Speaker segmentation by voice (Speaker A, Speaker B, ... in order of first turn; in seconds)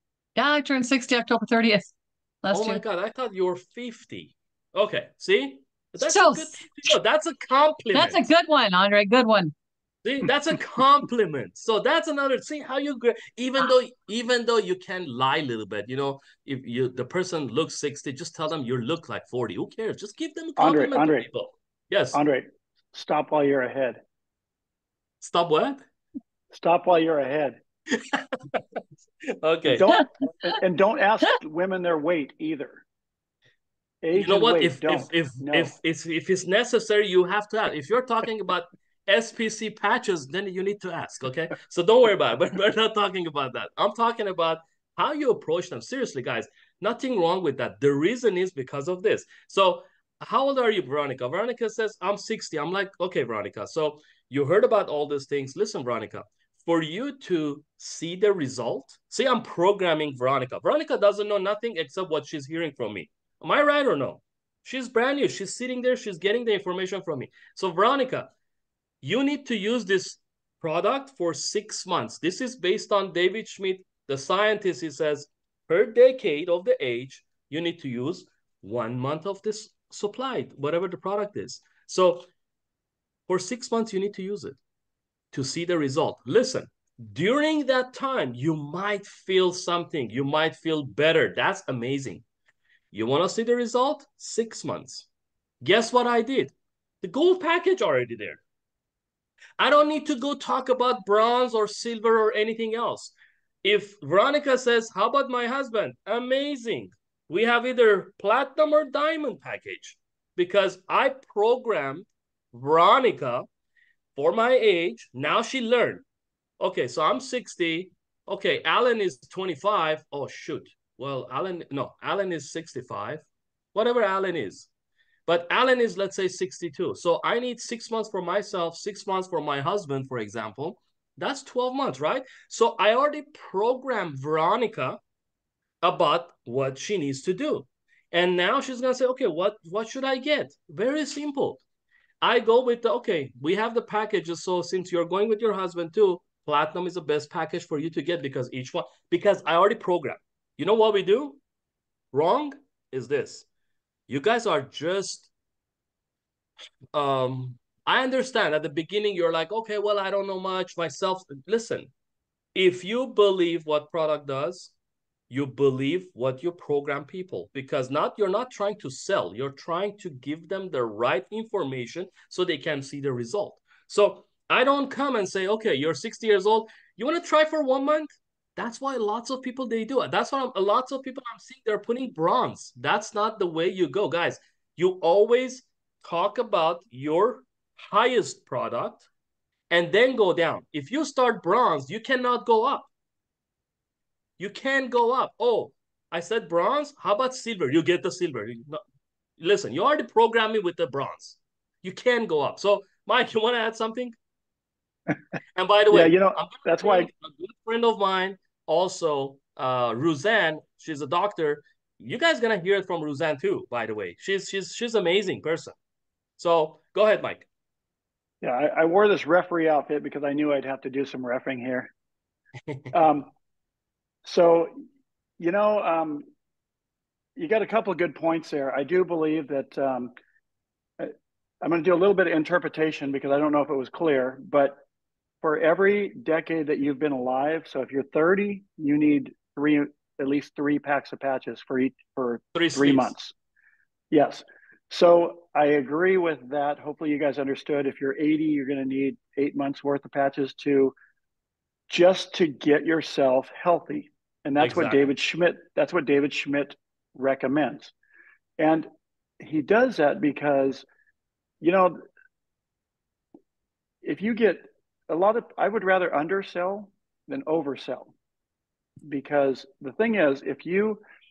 Speaker A: 0.4-2.8, 6.0-6.7, 7.9-9.5
Speaker B: 2.5-8.2, 10.0-22.2, 25.2-25.8, 27.9-28.6, 29.4-29.9, 34.1-68.3, 69.0-82.3, 83.3-84.6, 85.3-92.2, 92.9-95.1, 95.6-98.4, 99.6-113.5, 114.2-116.0, 116.6-124.7, 125.3-135.0, 135.8-141.6, 142.2-151.4, 152.1-153.5, 154.1-155.3, 156.9-161.9, 162.6-164.7, 165.3-189.1, 189.7-192.9, 194.4-198.8, 199.4-204.2, 205.6-215.8, 216.4-217.5, 242.6-243.2, 254.6-255.1
Speaker C: 20.6-21.3, 22.1-24.0, 26.5-27.6, 29.7-32.8, 34.0-35.7, 205.9-207.1, 218.4-221.9, 222.9-223.3, 224.2-224.8, 225.4-226.3, 227.4-230.1, 231.0-234.8, 235.4-243.3, 244.1-250.9, 251.9-257.9, 258.6-258.9, 259.4-260.9, 261.6-262.0, 264.0-268.1, 269.1-271.0